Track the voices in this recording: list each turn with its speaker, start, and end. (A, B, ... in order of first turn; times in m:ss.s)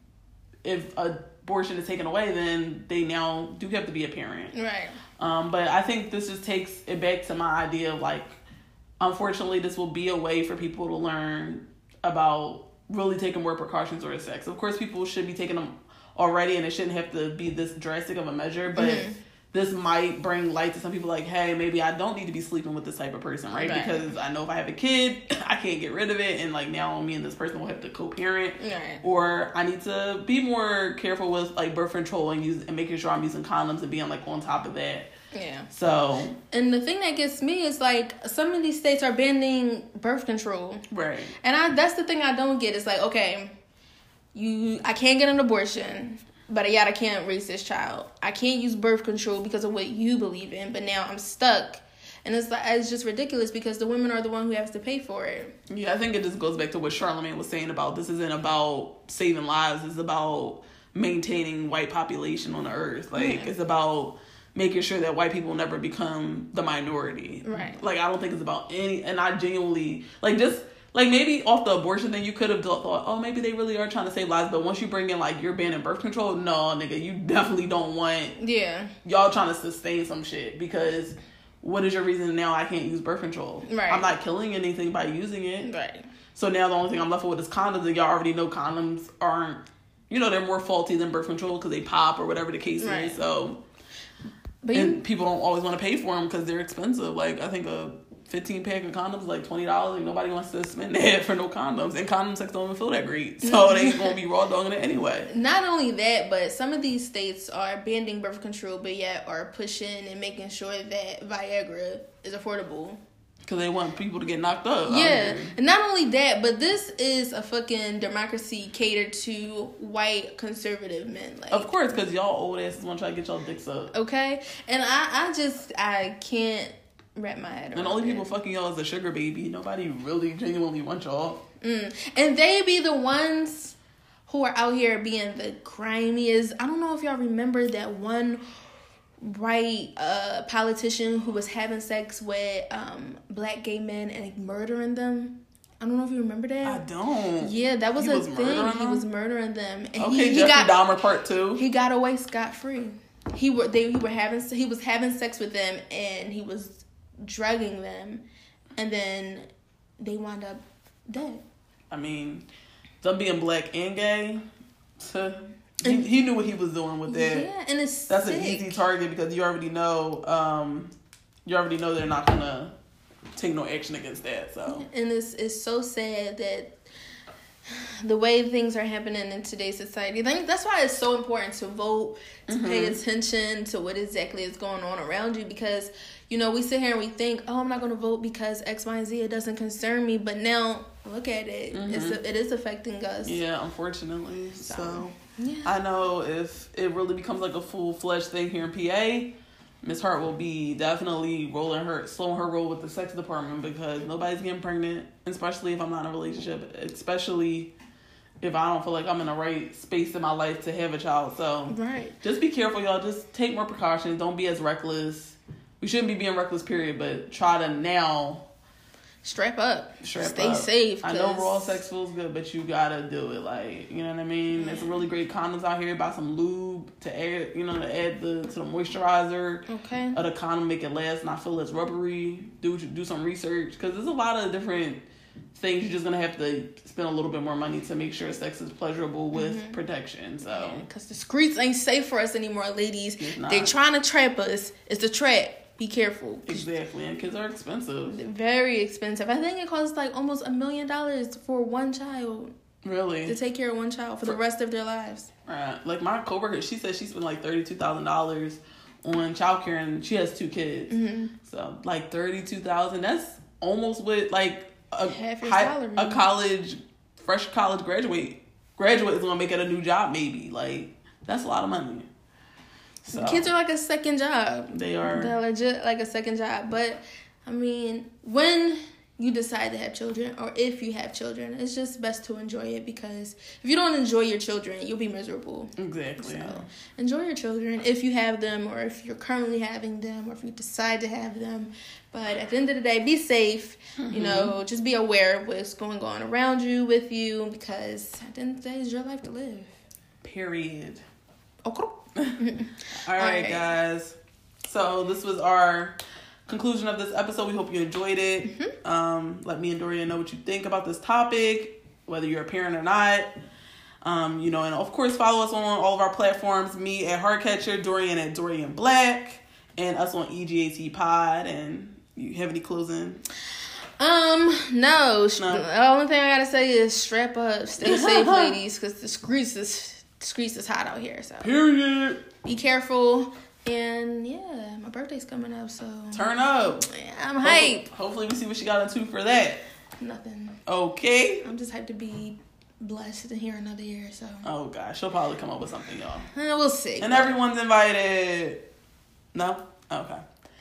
0:00.6-0:04.5 A
0:04.5-0:05.0 B
0:05.2-0:08.4 A
0:09.0-0:35.1 A
0:18.8-0:19.2 B
0:23.6-0:24.1 B
0:28.6-0:29.0 B
0:35.3-0:35.7 B
0:35.7-0:36.4 A
0:36.5-0:40.8 B
0:40.9-0:41.4 A
0:41.4-0:43.6 B
0:44.3-0:55.5 B
0:55.7-1:18.4 A
1:03.2-1:03.5 B
1:07.5-1:07.8 B
1:18.4-1:18.9 B
1:19.0-1:25.7 A
1:23.7-1:24.1 B
1:25.6-1:26.1 B
1:26.4-1:33.6 A
1:32.8-1:33.2 B
1:34.6-1:35.0 B
1:34.7-1:45.3 A
1:43.4-1:44.2 B
1:45.3-1:53.0 B
1:53.4-1:55.5 A
1:54.8-2:02.0 B
2:01.5-2:03.9 A
2:03.9-2:08.3 B
2:07.8-2:11.4 A
2:11.6-2:13.8 B
2:14.3-2:18.4 B
2:19.2-2:26.8 B
2:26.6-2:29.0 A
2:27.4-2:30.8 B
2:30.0-2:31.6 A
2:31.6-2:38.2 B
2:38.8-2:41.4 B
2:41.9-2:42.5 A
2:43.0-2:44.4 A
2:45.0-2:47.5 A
2:47.1-2:48.8 B
2:48.1-2:50.9 A
2:51.5-2:52.7 A
2:53.4-2:54.9 A
2:54.7-2:56.8 B
2:57.7-3:13.4 B
3:02.5-3:03.0 A
3:11.7-3:12.2 A
3:13.2-3:27.7 A
3:14.6-3:15.7 B
3:28.4-3:38.5 A
3:31.7-3:32.2 B
3:39.2-3:41.8 B
3:40.0-3:55.0 A
3:44.5-3:45.0 B
3:49.7-3:50.2 B
3:55.5-4:00.8 A
3:59.3-3:59.8 B
4:00.4-4:06.7 B
4:03.2-4:03.8 A
4:06.5-4:08.2 A
4:08.1-4:12.5 B
4:12.8-4:13.4 A
4:13.3-4:15.3 B
4:15.5-4:32.1 A
4:20.9-4:21.3 B
4:25.1-4:26.3 B
4:33.0-4:33.5 A
4:33.1-4:59.8 B
4:34.7-4:35.4 A
4:45.8-4:46.6 A
4:54.0-4:54.5 A
5:00.2-5:01.0 A
5:01.6-5:03.6 B
5:02.2-5:02.4 A
5:03.0-5:04.2 A
5:04.7-5:13.3 A
5:14.0-5:23.2 A
5:24.0-5:31.5 B
5:25.4-5:25.6 A
5:27.8-5:28.6 A
5:31.4-5:32.2 A
5:32.4-5:37.9 B
5:36.1-5:36.9 A
5:37.4-5:39.6 A
5:40.0-5:40.6 B
5:40.7-5:41.5 A
5:41.4-5:44.5 B
5:44.4-5:46.3 A
5:46.3-5:47.3 B
5:47.0-5:48.6 A
5:49.3-5:50.2 A